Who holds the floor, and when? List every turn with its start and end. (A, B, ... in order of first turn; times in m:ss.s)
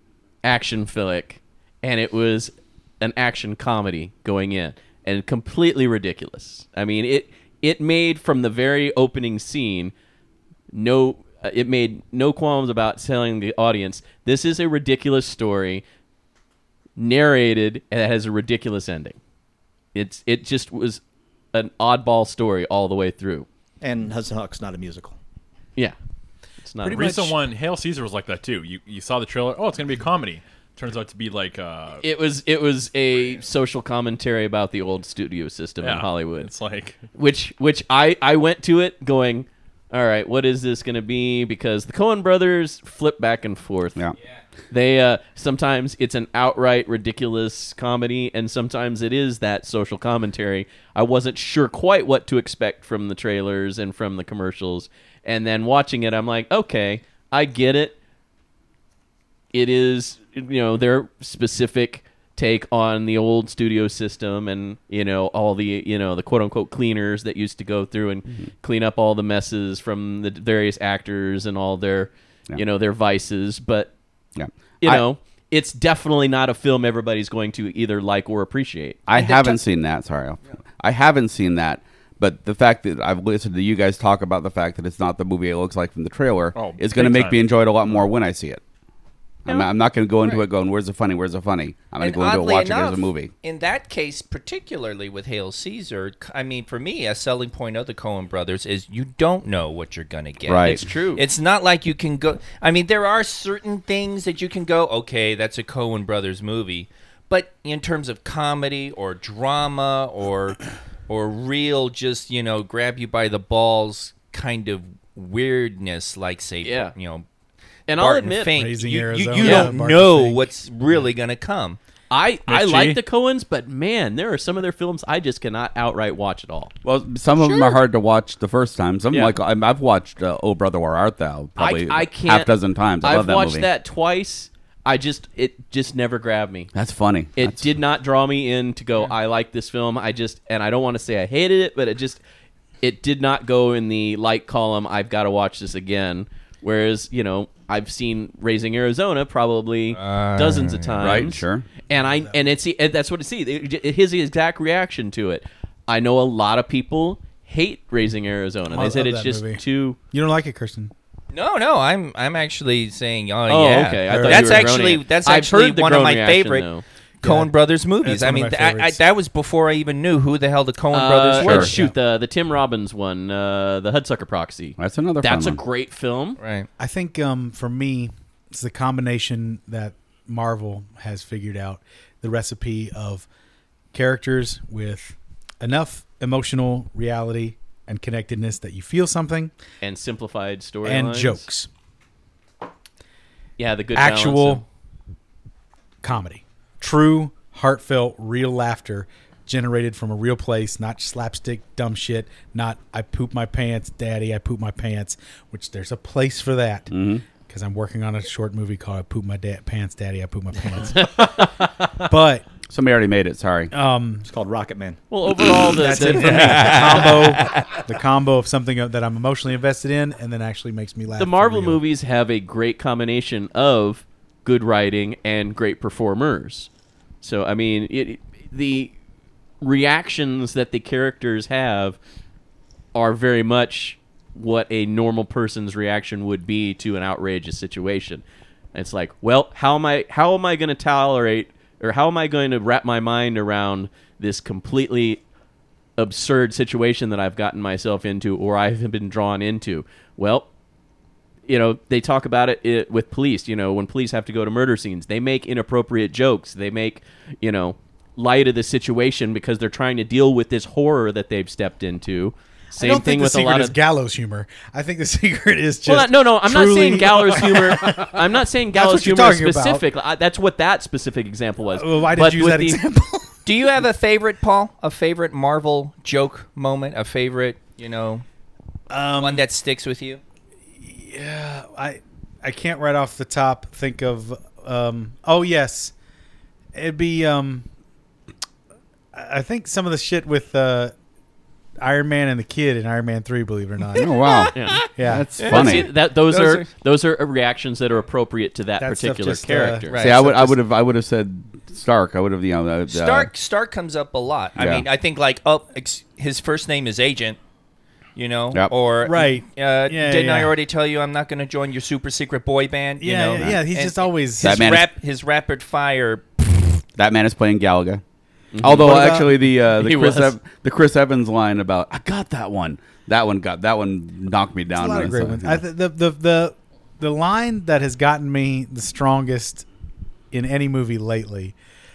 0:00.4-0:09.9 A
0:10.7-0:15.8 A
0:17.0-0:19.2 A
0:19.9-0:21.0 A
0:21.5-0:23.5 A
0:23.8-0:25.2 B
0:26.6-0:27.3 A
0:26.8-0:27.3 C
0:26.8-0:32.0 D
0:32.0-0:36.5 A
0:35.8-0:37.0 D
0:37.1-0:44.1 A
0:44.7-0:58.0 A
0:59.5-1:13.9 A
1:14.4-1:15.0 E
1:14.8-1:19.6 A
1:19.1-1:28.6 E
1:26.5-1:28.0 D
1:29.4-1:33.3 E
1:32.0-1:57.2 F
1:40.5-1:40.8 E
1:40.6-1:41.2 A
1:56.6-1:56.9 A
1:57.9-1:58.6 A
1:57.9-2:01.8 F
1:58.5-2:00.5 C
1:59.4-1:59.7 A
2:02.1-2:06.7 A
2:02.5-2:03.0 C
2:06.8-2:13.7 E
2:07.4-2:07.8 F
2:09.1-2:09.4 A
2:11.6-2:16.7 A
2:16.7-2:17.6 E
2:17.4-2:22.2 A
2:22.8-2:40.0 A
2:29.9-2:31.2 F
2:31.0-2:31.7 E
2:38.7-2:40.9 C
2:41.3-2:46.7 F
2:43.5-2:46.8 A
2:44.0-2:44.8 C
2:47.2-2:47.5 C
2:47.2-2:51.9 F
2:48.0-2:49.0 C
2:50.9-2:56.4 A
2:51.4-2:51.8 E
2:54.8-2:55.6 E
2:56.4-2:56.7 F
2:56.8-3:03.3 C
3:03.9-3:09.5 C
3:09.8-3:11.5 A
3:10.8-3:11.7 C
3:13.6-3:14.6 A
3:13.9-3:14.6 C
3:16.0-3:32.4 C
3:26.9-3:27.2 E
3:32.7-3:33.7 E
3:33.7-3:34.3 C
3:34.3-3:35.0 B
3:35.1-3:37.6 A
3:35.7-3:41.8 C
3:41.2-3:46.7 A
3:47.2-3:48.9 A
3:49.6-3:52.0 A
3:52.9-4:05.2 A
4:06.0-4:10.5 A
4:11.5-4:23.8 A
4:22.8-4:29.8 C
4:25.8-4:32.8 A
4:31.7-4:33.3 C
4:33.4-4:38.2 F
4:38.9-4:39.4 C
4:39.2-4:40.2 F
4:40.8-4:45.9 C
4:46.7-4:47.6 C
4:49.1-4:50.9 C
4:51.8-4:54.2 C
4:54.0-4:55.9 E
4:54.5-4:54.8 A
4:55.0-4:55.3 C
4:55.4-5:00.0 A
4:55.4-4:56.7 F
4:58.8-5:00.6 C
4:59.9-5:00.2 F
5:00.0-5:03.3 E
5:02.9-5:07.4 F
5:04.6-5:04.8 E
5:08.2-5:16.8 F
5:09.0-5:10.5 C
5:13.0-5:14.6 C
5:14.4-5:14.9 E
5:17.0-5:18.0 E
5:18.5-5:20.4 A
5:18.6-5:25.6 E
5:18.6-5:19.3 C
5:24.7-5:29.6 C
5:30.3-5:31.5 C